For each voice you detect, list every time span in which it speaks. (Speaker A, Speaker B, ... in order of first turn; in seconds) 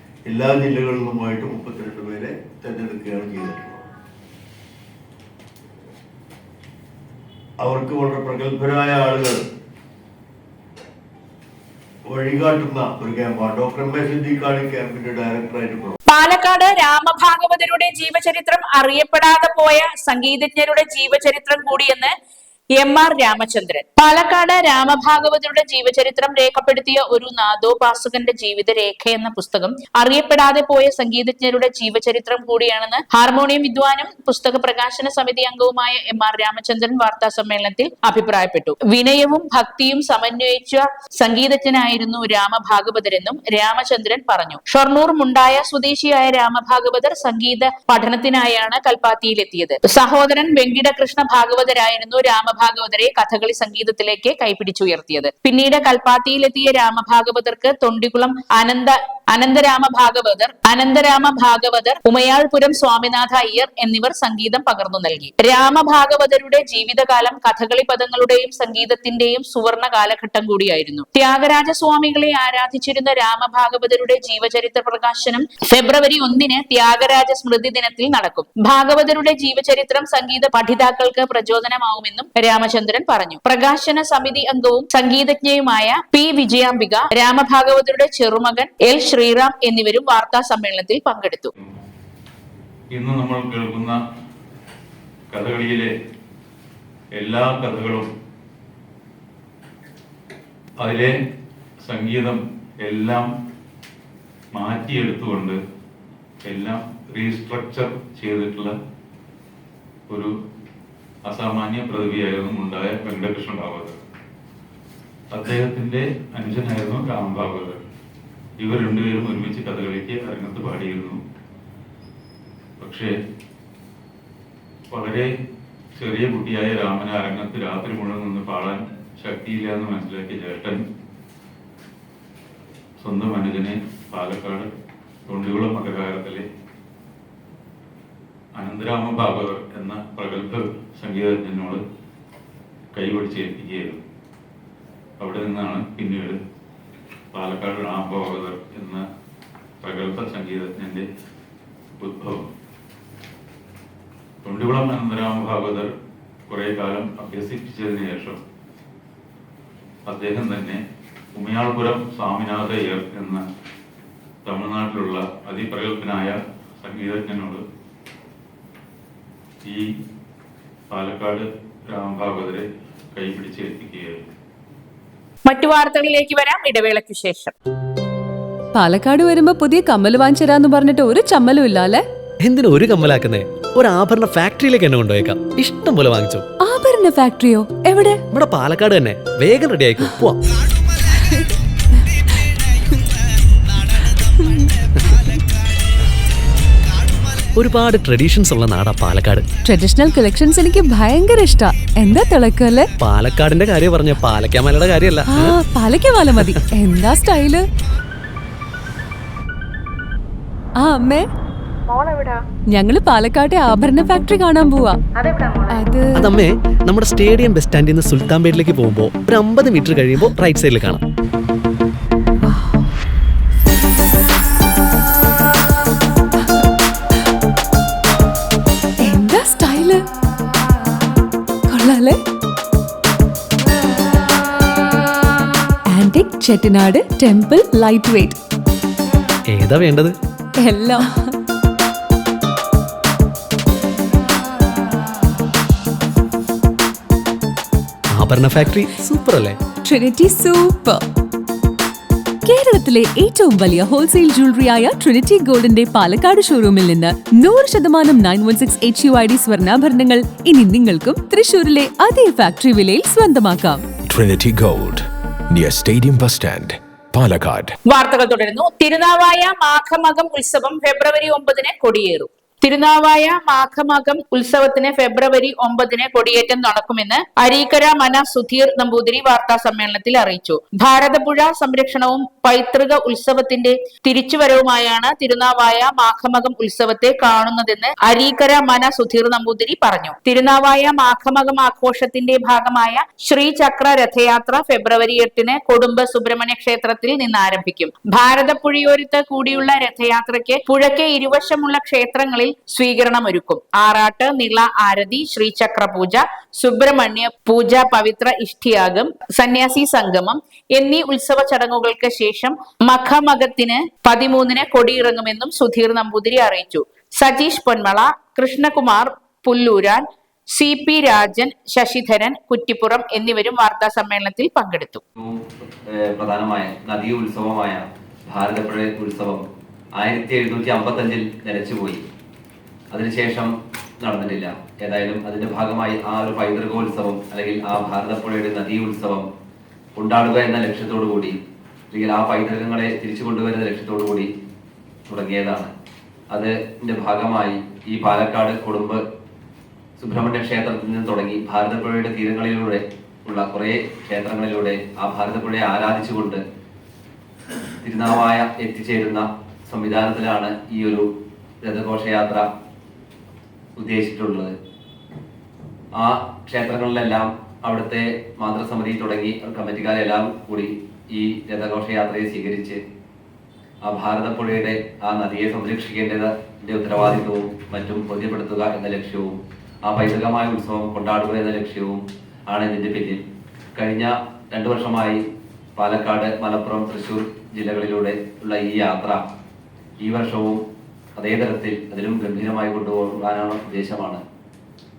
Speaker A: 0.2-3.9, 7.6-9.4, 12.1-16.0
Speaker B: 16.1-22.1, 22.8-91.5, 175.5-177.5, 267.9-325.0
Speaker C: 92.9-94.0, 95.3-95.9, 97.2-98.1, 100.8-101.1, 101.8-103.3, 104.5-105.6, 106.5-108.7, 111.3-114.0, 115.3-117.8, 118.6-121.2, 122.8-123.1, 124.9-125.3, 126.0-130.8, 133.0-134.7, 135.3-136.4, 138.6-141.8, 142.9-144.0, 145.2-146.4, 147.3-149.0, 149.8-151.0, 152.0-152.4, 154.4-155.9, 156.5-158.4, 160.1-160.8, 161.3-163.4, 164.4-167.6, 170.9-174.2
Speaker D: 178.8-182.0, 186.6-188.2, 199.7-202.9, 205.3-207.7, 210.8-211.2, 212.7-215.0, 215.7-216.1, 229.0-230.0, 231.7-232.2, 235.9-238.4, 240.6-241.3, 249.9-251.0, 252.4-263.8
Speaker E: 182.4-186.5, 188.3-190.4, 197.5-199.5, 203.0-205.5, 206.3-206.6, 216.2-221.0, 239.5-240.1, 248.1-249.6
Speaker F: 264.1-267.8
Speaker G: 325.2-329.4, 330.0-332.0, 332.9-339.2, 340.0-341.4, 341.9-344.3, 345.1-345.7, 346.3-349.0, 350.0-356.4, 357.8-361.1, 361.6-362.5, 363.8-364.5, 366.0-372.8, 373.9-383.2, 383.8-385.2, 385.8-389.2, 390.0-390.6, 391.2-394.2